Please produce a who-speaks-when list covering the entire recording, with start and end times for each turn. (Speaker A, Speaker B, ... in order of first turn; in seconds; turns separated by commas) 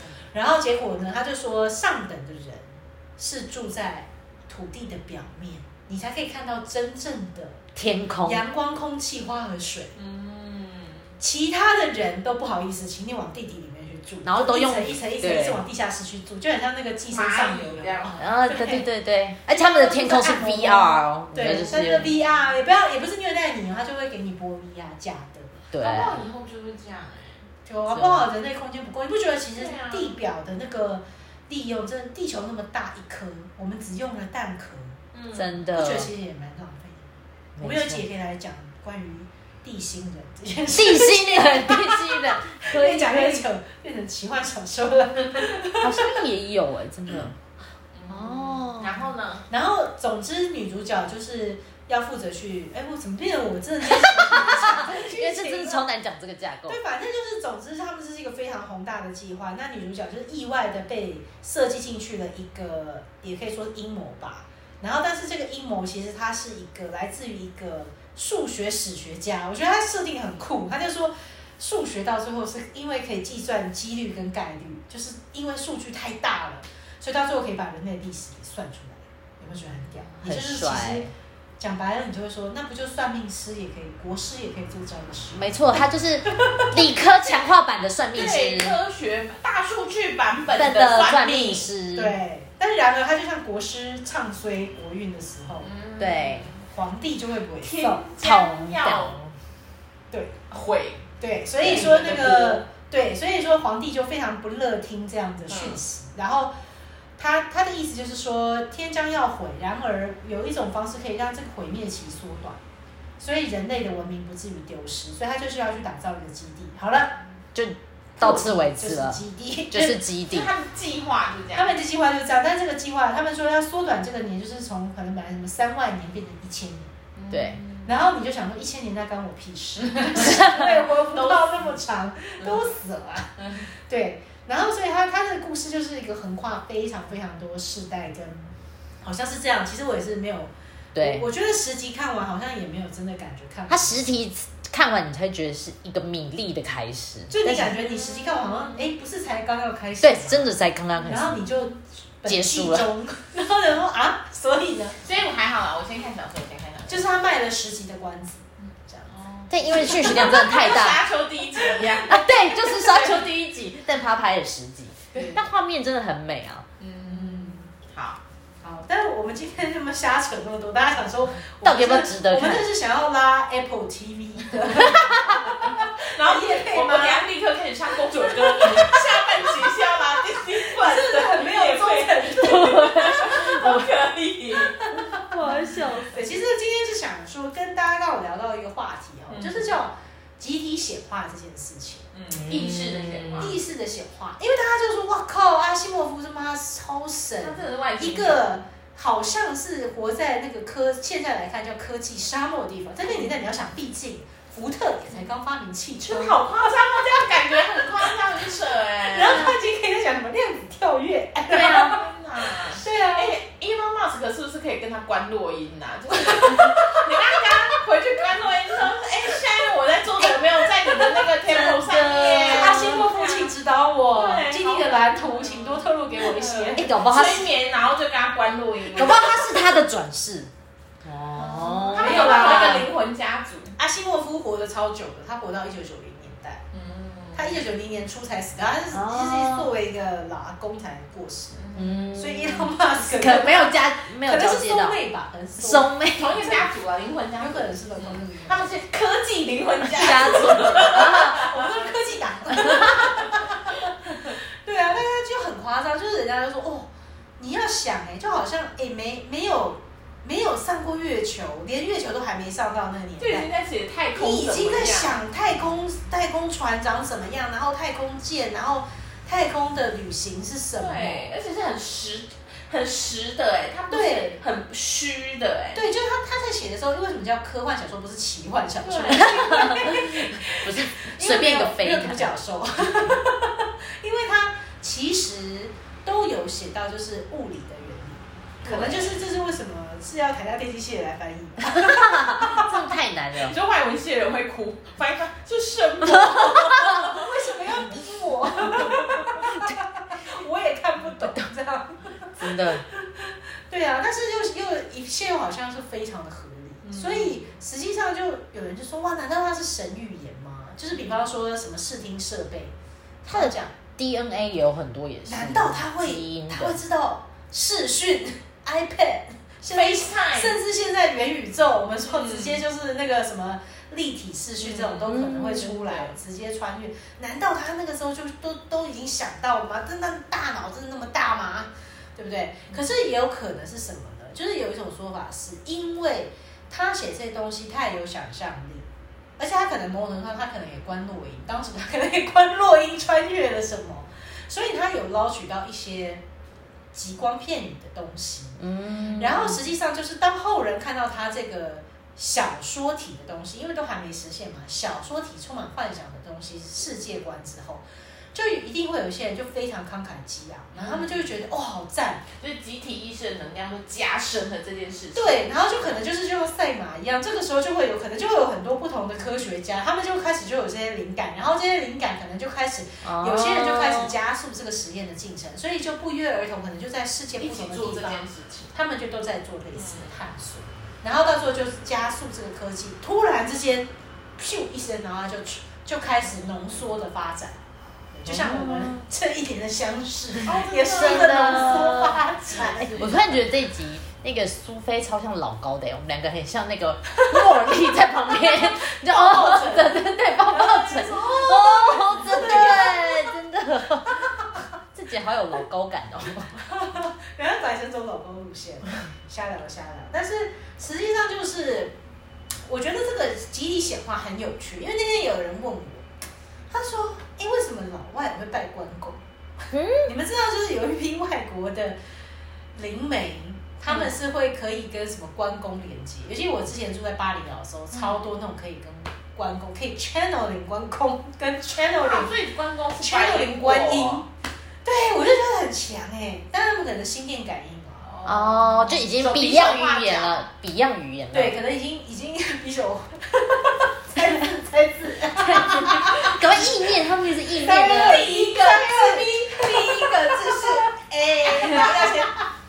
Speaker A: 0.3-7.6, Speaker B: 7.8-8.4, Speaker A: 8.2-9.9, Speaker C: 9.9-11.1, Speaker A: 11.2-18.9, Speaker B: 14.2-15.6, Speaker C: 17.1-18.2, Speaker B: 18.2-22.1, Speaker A: 19.5-25.6, Speaker B: 25.7-26.2, Speaker C: 25.8-27.5, Speaker A: 27.7-35.0, Speaker B: 27.9-28.3, Speaker C: 29.6-30.2, Speaker C: 35.1-35.5, Speaker B: 35.4-36.1, Speaker A: 35.8-37.1, Speaker B: 37.6-38.0, Speaker A: 37.6-46.2, Speaker B: 40.7-43.5, Speaker B: 45.8-47.4, Speaker C: 47.9-49.5, Speaker B: 48.1-49.1, Speaker A: 49.5-55.9, Speaker B: 53.9-56.8, Speaker A: 56.7-81.1, Speaker C: 79.4-80.1, Speaker B: 80.2-81.1, Speaker A: 81.6-86.8, Speaker B: 85.3-88.8, Speaker C: 88.1-91.7, Speaker B: 90.5-92.2, Speaker A: 91.9-95.7, Speaker C: 95.6-96.6, Speaker B: 96.0-96.5, Speaker A: 96.7-98.0, Speaker C: 97.6-99.2, Speaker B: 98.2-99.3, Speaker A: 100.1-100.4, Speaker C: 100.5-101.1, Speaker A: 101.2-106.5, Speaker C: 101.6-102.6, Speaker B: 101.6-101.9, Speaker C: 105.5-105.8, Speaker A: 107.2-112.6, Speaker A: 113.2-117.2, Speaker B: 117.5-119.2, Speaker A: 118.2-120.0, Speaker B: 119.7-120.5, Speaker C: 120.3-121.8, Speaker A: 121.5-126.9, Speaker C: 127.2-128.0, Speaker B: 127.3-127.6, Speaker A: 127.8-144.0, Speaker C: 129.9-130.3, Speaker B: 130.2-130.7, Speaker C: 131.2-131.6, Speaker C: 133.4-133.6, Speaker B: 140.9-141.3, Speaker B: 143.7-147.8, Speaker A: 147.3-155.0, Speaker C: 148.0-148.8, Speaker B: 150.0-151.4, Speaker B: 152.3-152.9, Speaker C: 155.0-157.1, Speaker A: 156.9-159.1, Speaker C: 158.6-163.3, Speaker B: 159.5-161.1, Speaker A: 159.6-160.5, Speaker A: 161.7-162.1, Speaker B: 161.8-166.7, Speaker A: 165.1-165.4, Speaker C: 166.8-168.2, Speaker A: 167.1-167.7, Speaker A: 168.6-177.3, Speaker B: 171.6-172.7, Speaker C: 175.4-184.9, Speaker A: 178.2-179.0, Speaker A: 180.6-183.2, Speaker B: 182.4-183.9, Speaker A: 184.6-192.1, Speaker B: 185.3-186.1, Speaker C: 185.5-185.9, Speaker C: 189.3-189.8, Speaker C: 192.1-193.6, Speaker B: 192.3-193.5, Speaker A: 193.4-206.7, Speaker C: 197.4-198.6, Speaker C: 206.1-209.5, Speaker A: 209.1-213.4, Speaker C: 211.5-223.5, Speaker B: 211.6-211.9, Speaker A: 216.2-217.1, Speaker B: 221.4-223.1, Speaker A: 222.4-226.9, Speaker C: 224.1-229.5, Speaker B: 226.7-227.5, Speaker B: 228.9-230.5, Speaker B: 231.0-232.9, Speaker C: 231.4-233.8, Speaker A: 231.9-232.9, Speaker A: 233.8-236.6, Speaker C: 236.7-237.6, Speaker A: 237.3-246.7, Speaker B: 238.9-239.7, Speaker C: 241.5-242.0, Speaker B: 241.8-245.0, Speaker B: 245.6-246.4, Speaker C: 246.1-251.9, Speaker A: 247.4-248.7, Speaker B: 249.9-251.5, Speaker A: 250.0-256.9, Speaker B: 252.5-253.1, Speaker A: 257.4-263.5, Speaker C: 263.2-265.2, Speaker A: 264.1-271.3, Speaker C: 270.8-275.9, Speaker A: 273.9-274.4, Speaker A: 275.7-292.7, Speaker C: 278.8-279.8, Speaker B: 279.1-282.4, Speaker C: 288.6-289.2, Speaker B: 291.7-293.6, Speaker C: 293.3-297.6, Speaker B: 296.0-297.1, Speaker A: 296.9-313.7, Speaker C: 298.7-299.4, Speaker B: 302.4-302.8, Speaker C: 306.8-307.4, Speaker B: 313.3-316.8, Speaker A: 315.3-346.2, Speaker C: 319.7-320.6, Speaker C: 322.1-322.6, Speaker C: 324.6-325.1, Speaker B: 325.1-325.9, Speaker A: 346.9-348.6, Speaker B: 348.6-349.6, Speaker A: 349.1-357.8, Speaker A: 358.3-362.2, Speaker C: 360.7-361.3, Speaker C: 362.4-366.0, Speaker A: 365.1-387.6, Speaker B: 373.0-374.1, Speaker C: 377.4-378.7, Speaker C: 379.8-380.2, Speaker A: 388.1-393.1, Speaker B: 388.3-389.1, Speaker C: 390.4-393.3, Speaker B: 390.9-392.2, Speaker B: 392.9-406.7, Speaker A: 398.6-403.3, Speaker C: 402.3-402.7, Speaker A: 406.7-411.9, Speaker A: 412.7-416.1, Speaker A: 416.7-419.2, Speaker B: 419.7-420.1, Speaker A: 420.0-422.0, Speaker A: 422.8-432.3, Speaker C: 427.9-428.2, Speaker C: 431.9-434.2, Speaker A: 433.0-434.3, Speaker A: 434.8-438.1, Speaker C: 438.0-440.4, Speaker B: 438.2-441.6, Speaker A: 441.3-446.9, Speaker B: 445.4-448.2, Speaker A: 447.5-452.5, Speaker C: 447.7-452.3